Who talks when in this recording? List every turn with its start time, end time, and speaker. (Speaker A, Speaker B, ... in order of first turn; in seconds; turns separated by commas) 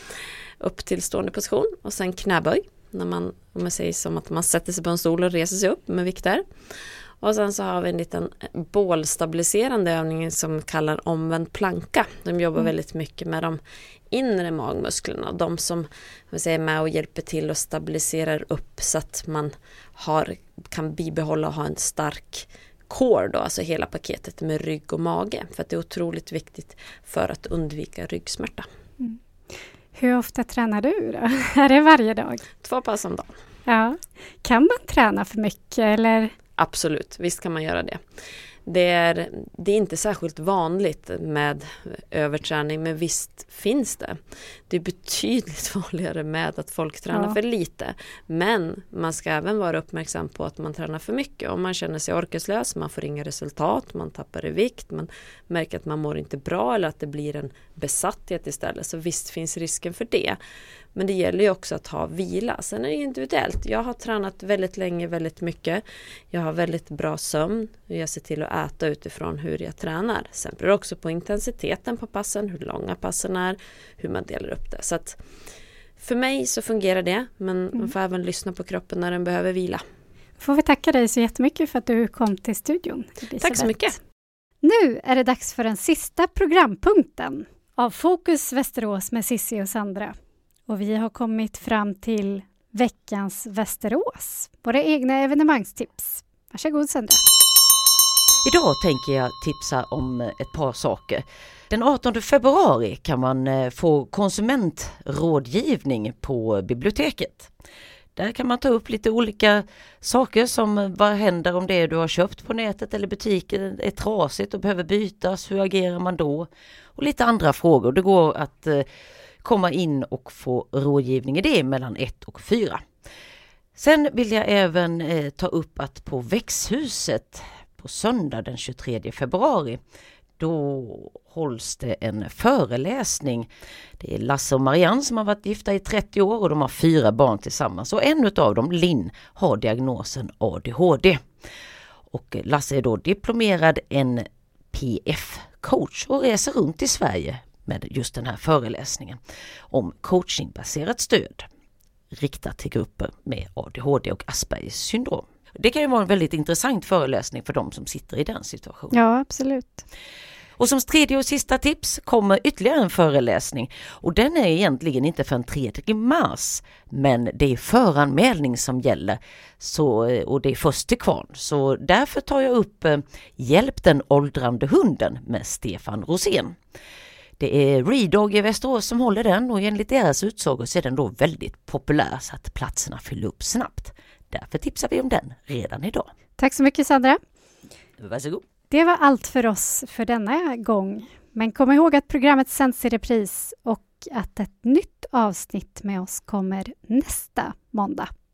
Speaker A: 0.6-6.4, Speaker A: 7.2-13.6, Speaker A: 14.1-28.7, Speaker B: 29.9-32.4, Speaker A: 32.6-33.4, Speaker B: 33.7-36.3, Speaker A: 36.6-38.0, Speaker A: 38.7-60.4, Speaker B: 47.1-47.4, Speaker A: 61.0-75.2, Speaker A: 76.0-79.8, Speaker B: 80.4-83.9, Speaker A: 83.4-84.0, Speaker B: 84.6-90.2, Speaker B: 90.7-97.2, Speaker C: 98.4-107.5, Speaker C: 108.2-118.9, Speaker C: 119.4-122.8, Speaker C: 123.8-129.8, Speaker C: 130.4-141.2, Speaker C: 142.1-151.5, Speaker C: 152.2-159.0, Speaker B: 158.9-159.8, Speaker C: 160.6-176.6, Speaker C: 177.4-186.1, Speaker B: 186.4-187.2, Speaker C: 188.0-188.4, Speaker B: 188.7-198.1